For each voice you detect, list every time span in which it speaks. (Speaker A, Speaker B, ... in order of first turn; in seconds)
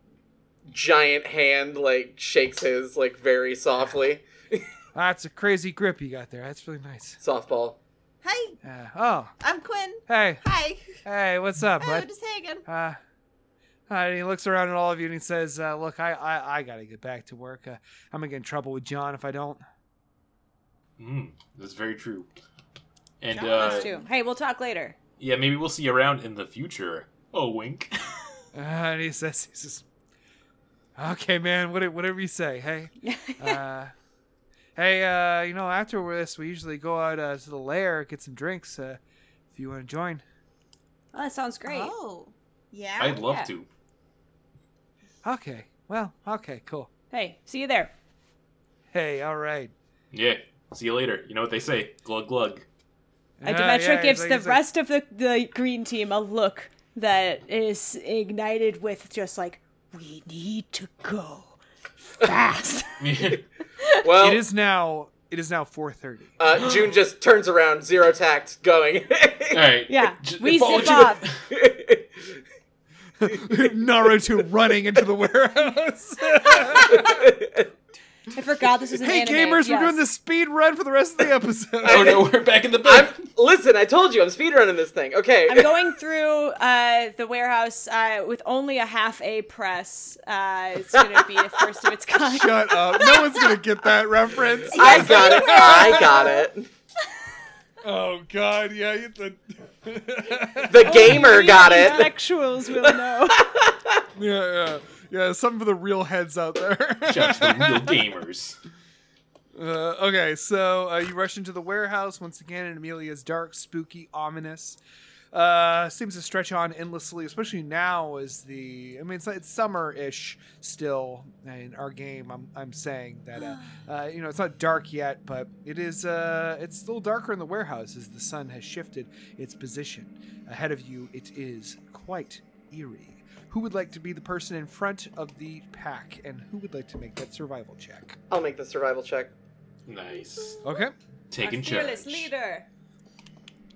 Speaker A: 0.7-4.7, 7.2-7.8, 64.0-64.4, 66.4-69.6, 71.5-72.2, 76.8-77.7, 81.8-85.8, 94.7-96.7, 100.6-102.1, 102.8-104.0, 138.3-139.3
Speaker B: 4.9-7.2, 8.6-9.3, 10.1-10.4, 11.0-12.1, 12.7-13.0, 13.9-19.6, 28.5-29.8, 30.9-33.9, 34.8-39.0, 39.5-40.2, 45.2-46.9, 48.9-49.7, 53.4-54.6, 64.2-66.4, 73.2-77.2, 79.0-82.2, 92.2-96.2, 97.8-101.4, 104.1-108.0, 109.5-114.8, 115.3-138.2, 140.6-140.9
Speaker C: 8.2-8.6, 9.4-11.0, 11.8-12.6, 23.3-24.1, 41.6-43.2, 94.7-96.5
Speaker D: 21.0-22.3, 23.2-23.9, 25.2-27.9, 43.0-43.7, 50.1-52.6, 63.0-63.4, 69.5-71.4, 81.8-83.2, 107.0-108.6, 139.8-140.6, 141.3-142.3
Speaker E: 23.6-24.9, 33.0-33.6, 41.1-41.9, 43.2-43.5, 47.1-47.9, 53.4-63.0, 63.8-64.0, 69.9-71.2, 78.3-80.0, 85.5-93.4, 94.8-95.7, 100.8-103.5, 141.4-142.7